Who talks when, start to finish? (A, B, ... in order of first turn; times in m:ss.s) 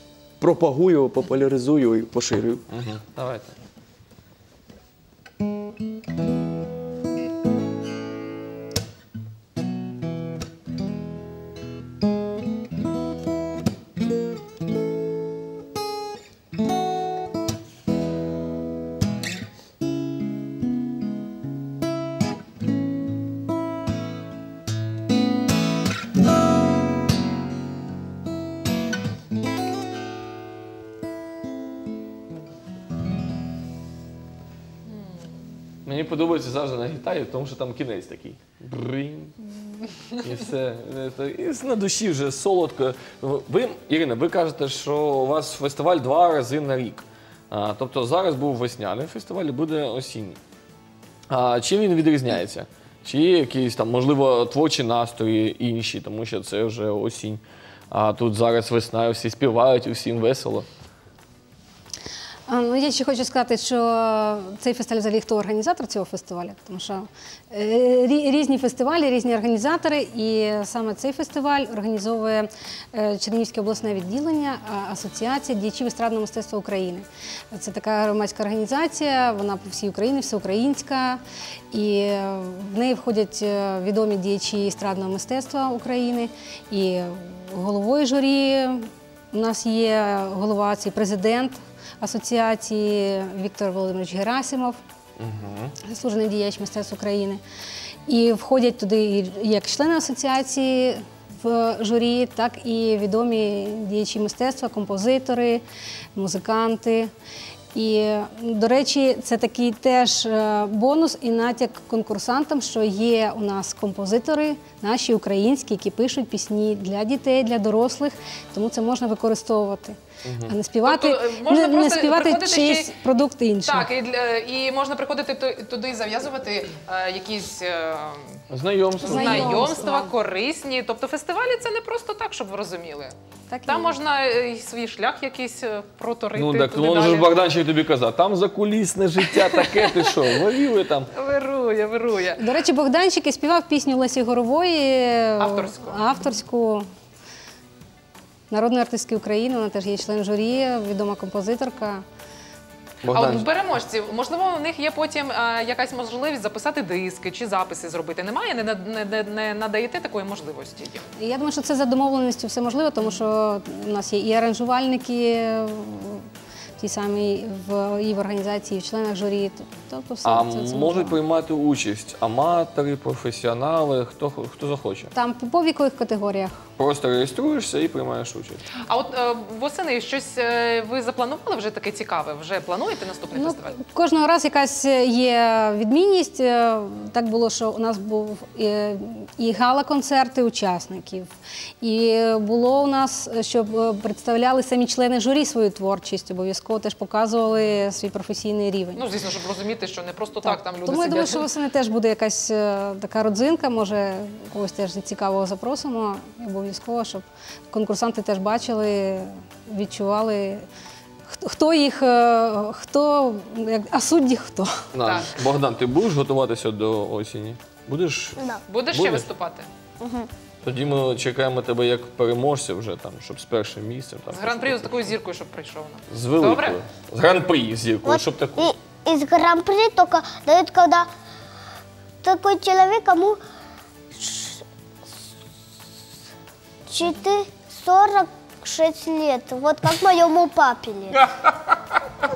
0:00.4-0:02.6 A
0:02.7-0:03.6 B
0:34.9-0:35.2 C
0:35.8-0:39.4 B
0:40.1-0:50.4 B
0:51.3-1:00.7 B
1:02.5-1:34.8 D
1:35.2-1:35.8 B
1:35.8-1:37.4 D
1:38.1-1:45.6 D
1:46.2-1:47.1 D
1:47.7-2:03.9 D
2:00.2-2:00.6 B
2:00.8-2:03.0 C
2:03.6-2:08.4 C
2:08.5-2:09.7 B
2:09.0-2:10.1 D
2:09.1-2:13.2 C
2:13.5-2:14.0 D
2:13.7-2:17.4 C
2:16.3-2:21.1 B
2:19.4-2:20.1 C
2:21.2-2:22.4 C
2:22.4-2:26.9 D
2:25.4-2:26.0 C
2:28.5-2:32.0 D
2:33.0-2:33.5 B
2:33.1-2:41.1 C
2:41.2-2:46.3 D
2:46.8-2:51.2 D
2:50.2-2:55.1 B
2:55.1-2:56.6 D
2:56.8-2:58.7 B
2:58.8-3:03.8 C
3:03.3-3:19.0 D
3:19.0-3:21.5 C
3:20.4-3:30.7 D
3:31.3-3:34.8 D
3:34.9-3:39.3 B
3:35.0-3:35.3 C
3:38.4-3:38.6 E
3:38.7-3:39.7 C
3:40.0-3:40.3 E
3:40.6-3:45.1 B
3:44.3-3:46.8 C
3:46.1-3:48.7 B
3:48.0-3:51.1 E
3:52.2-3:53.4 E
3:54.1-3:54.6 E
3:56.9-4:01.2 E
4:01.1-4:01.8 B